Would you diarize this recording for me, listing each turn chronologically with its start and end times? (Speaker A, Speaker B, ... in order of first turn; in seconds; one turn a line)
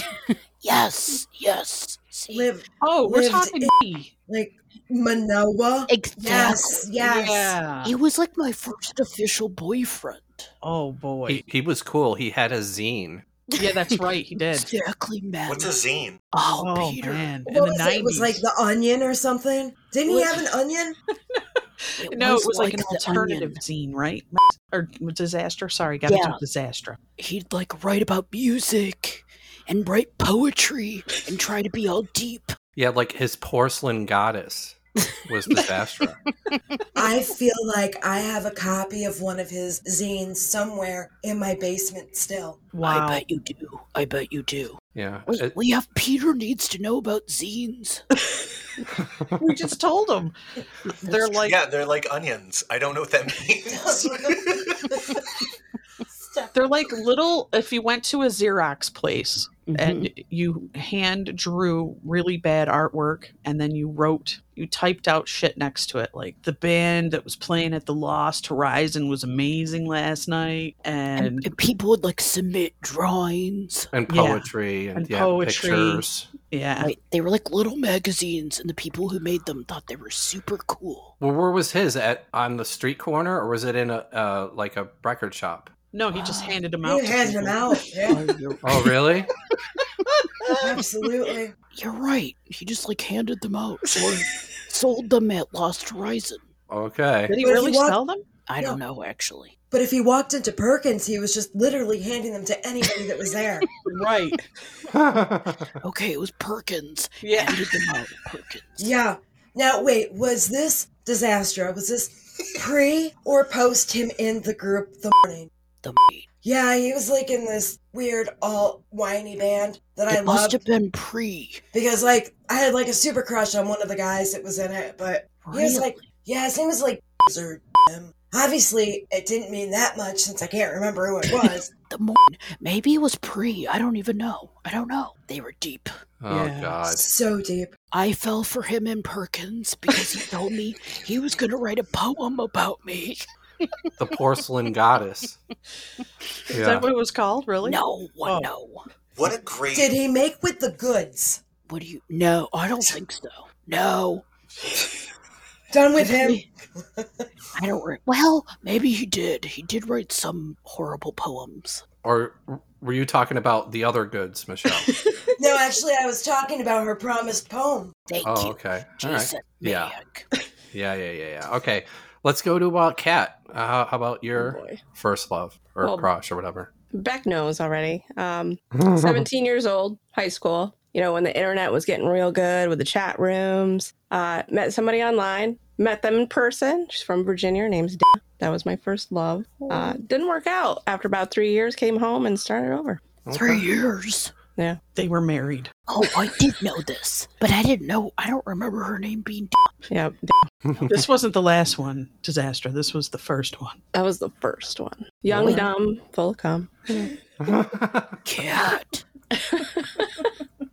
Speaker A: 0.6-2.5
Speaker B: 2.3-3.7
Speaker C: 2.8-4.1
Speaker B: 4.3-7.5
Speaker A: 5.9-6.9
Speaker C: 7.0-7.9
Speaker A: 7.8-10.5
Speaker C: 10.6-11.4
Speaker D: 11.3-13.2
Speaker C: 13.6-14.7
Speaker A: 14.5-15.8
Speaker E: 15.5-16.2
Speaker A: 16.3-17.3
Speaker C: 16.6-18.4
Speaker B: 17.5-21.0
Speaker A: 20.1-20.4
Speaker C: 21.8-27.0
Speaker A: 22.0-23.6
Speaker A: 26.1-26.4
Speaker A: 27.2-32.6
Speaker D: 32.8-36.2
Speaker B: 37.0-42.6
Speaker C: 42.7-43.2
Speaker A: 42.8-48.0
Speaker D: 45.0-45.5
Speaker C: 49.4-50.3
Speaker C: 51.0-51.6
Speaker E: 51.2-54.9
Speaker B: 53.7-55.2
Speaker B: 56.3-56.6
Speaker C: 56.5-71.5
Speaker A: 59.7-60.1
Speaker A: 71.2-73.9
Speaker D: 73.9-76.3
Speaker C: 74.1-76.9
Speaker A: 76.8-81.1
Speaker D: 81.2-85.7
Speaker C: 85.9-87.7
Speaker A: 86.1-86.6
Speaker B: 86.8-88.2
Speaker A: 88.0-89.0
Speaker D: 88.6-89.3
Speaker B: 90.6-91.5
Speaker A: 91.7-96.5
Speaker D: 96.7-97.3
Speaker C: 97.3-98.2
Speaker B: 97.4-98.0
Speaker A: 98.5-99.5
Speaker B: 99.7-103.7
Speaker C: 103.8-104.5
Speaker D: 104.9-105.7
Speaker A: 105.8-108.9
Speaker C: 107.2-107.6
Speaker B: 108.8-115.5
Speaker A: 115.8-116.3
Speaker B: 116.4-120.6
Speaker A: 120.1-121.6
Speaker B: 121.7-131.7
Speaker A: 125.4-126.1
Speaker A: 131.2-136.0
Speaker D: 136.2-137.0
Speaker C: 136.3-136.8
Speaker B: 136.9-137.7
Speaker A: 137.9-143.3
Speaker D: 144.0-145.4
Speaker C: 146.5-148.5
Speaker D: 146.5-146.9
Speaker A: 147.6-148.8
Speaker E: 149.2-149.9
Speaker B: 149.7-151.4
Speaker A: 151.7-154.2
Speaker B: 155.7-156.4
Speaker A: 156.0-156.5
Speaker B: 157.0-157.2
Speaker A: 157.6-161.8
Speaker D: 162.0-165.0
Speaker B: 165.4-167.9
Speaker A: 168.1-170.3
Speaker D: 168.2-169.9
Speaker D: 170.7-176.7
Speaker F: 174.3-174.8
Speaker F: 175.8-176.1
Speaker F: 176.9-193.0
Speaker D: 178.8-179.2
Speaker D: 193.3-193.7
Speaker A: 193.3-194.3
Speaker C: 194.9-195.7
Speaker A: 195.9-199.8
Speaker F: 199.9-200.4
Speaker A: 200.7-201.0
Speaker C: 200.9-203.8
Speaker F: 203.9-206.8
Speaker D: 205.3-205.6
Speaker A: 205.3-205.7
Speaker D: 207.4-208.1
Speaker A: 208.2-209.0